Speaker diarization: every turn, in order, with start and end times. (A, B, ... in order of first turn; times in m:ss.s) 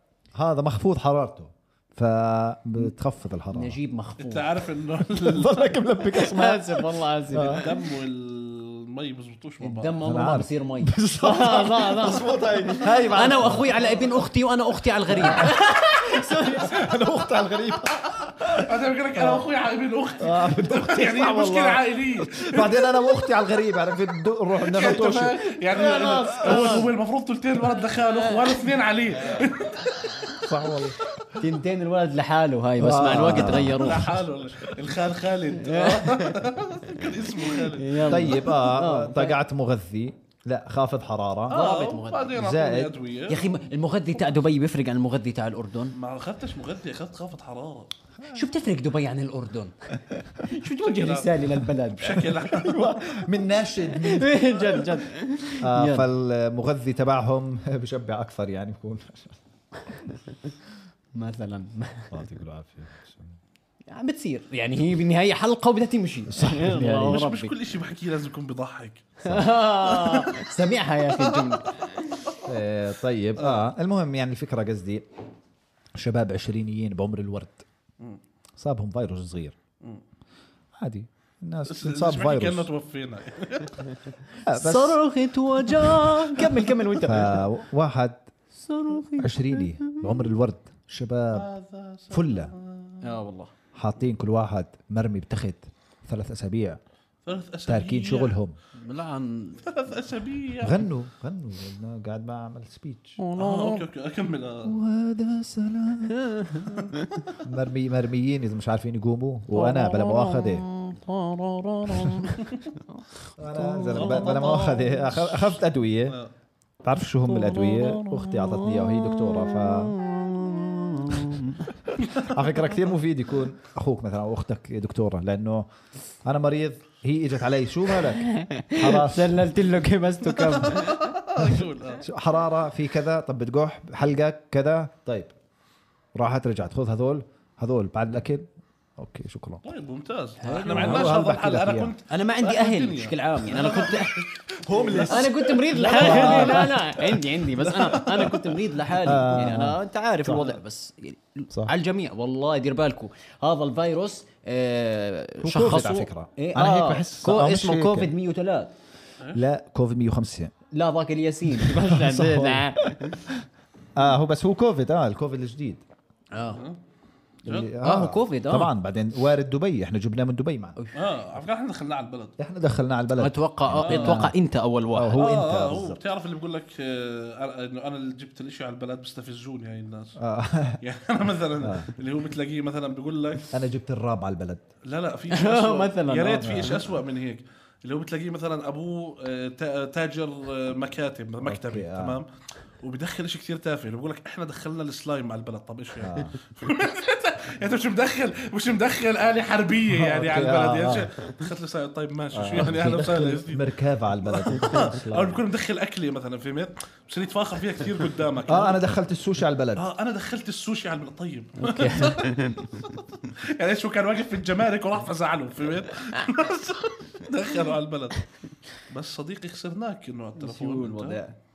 0:00.3-0:03.8 A
0:03.5-0:04.5 B
0:04.2-0:05.7 C
0:05.1-0:07.7 A
0:06.1-0:07.8 B
0:07.5-0:10.0 C
0:09.6-0:16.9 B
0:10.0-0:14.2 A
0:15.1-0:19.5 A
0:18.5-0:22.8 C
0:20.2-0:25.4 A
0:24.6-0:30.4 C
0:25.7-0:26.9 B
0:26.5-0:26.8 A
0:27.9-0:28.7 B
0:30.4-0:31.0 A
0:31.3-0:34.2 B
0:32.8-0:34.2 A
0:33.2-0:38.3 C
0:35.6-0:39.4 B
0:38.1-0:41.6 A
0:41.5-0:42.4 B
0:41.5-0:43.4 C
0:42.3-0:42.9 A
0:43.3-0:45.9 B
0:45.9-0:47.9 C
0:48.3-0:49.7 B
0:50.4-0:52.3 B
0:50.8-0:51.4 C
0:52.0-0:52.9 C
0:52.1-0:54.7 A
0:54.0-0:56.1 B
0:55.6-0:59.4 A
1:01.2-1:02.2 B
1:02.1-1:03.4 A
1:03.9-1:07.5 B
1:06.3-1:07.2 A
1:06.9-1:09.2 C
1:09.2-1:12.3 B
1:09.8-1:10.5 C
1:11.2-1:11.6 C
1:12.4-1:15.0 A
1:13.4-1:13.7 C
1:16.0-1:17.6 A
1:18.6-1:19.6 A
1:20.8-1:22.7 A
1:21.7-1:23.9 C
1:24.4-1:25.0 A
1:24.5-1:27.5 B
1:27.0-1:28.2 A
1:28.5-1:30.3 B
1:29.2-1:31.5 A
1:31.3-1:33.1 C
1:32.1-1:32.5 A
1:33.0-1:33.5 B
1:33.8-1:36.8 A
1:37.2-1:38.4 C
1:37.7-1:38.6 A
1:38.7-1:39.6 B
1:39.6-1:40.8 C
1:40.6-1:43.2 A
1:43.2-1:43.8 B
1:43.4-1:44.8 C
1:44.6-1:46.7 A
1:46.1-1:47.2 B
1:47.4-1:50.7 A
1:49.5-1:54.5 B
1:52.4-1:52.6 C
1:53.4-1:56.2 A
1:53.9-1:56.3 C
1:56.8-1:59.9 A
1:57.2-2:01.7 B
2:01.9-2:05.7 A
2:02.0-2:02.3 C
2:06.2-2:09.5 A
2:08.1-2:11.1 B
2:10.3-2:12.1 C
2:11.4-2:15.3 A
2:16.1-2:18.4 A
2:19.0-2:19.6 A
2:19.6-2:28.6 C
2:20.4-2:21.1 B
2:20.6-2:21.9 A
2:22.1-2:24.3 B
2:24.6-2:26.8 A
2:25.0-2:38.7 B
2:29.0-2:30.6 A
2:35.4-2:38.1 A
2:39.3-2:40.5 A
2:40.7-2:43.2 B
2:41.5-2:45.8 A
2:46.3-2:46.6 B
2:46.5-2:46.8 C
2:47.4-2:50.8 A
2:47.4-2:47.7 C
2:47.8-2:48.7 B
2:50.9-2:52.3 C
2:52.4-2:54.3 A
2:53.2-2:55.3 B
2:53.8-2:54.3 C
2:54.9-2:56.0 A
2:55.1-3:00.2 C
3:00.2-3:00.8 A
3:00.8-3:03.5 C
3:01.6-3:01.9 A
3:03.5-3:04.6 A
3:04.8-3:12.3 C
3:05.3-3:06.8 B
3:06.4-3:06.9 A
3:11.4-3:12.2 A
3:12.8-3:23.7 C
3:16.0-3:16.4 A
3:19.9-3:21.1 A
3:22.3-3:25.4 A
3:24.2-3:28.8 C
3:28.5-3:29.9 A
3:29.8-3:41.2 C
3:31.6-3:32.7 B
3:40.4-3:41.3 B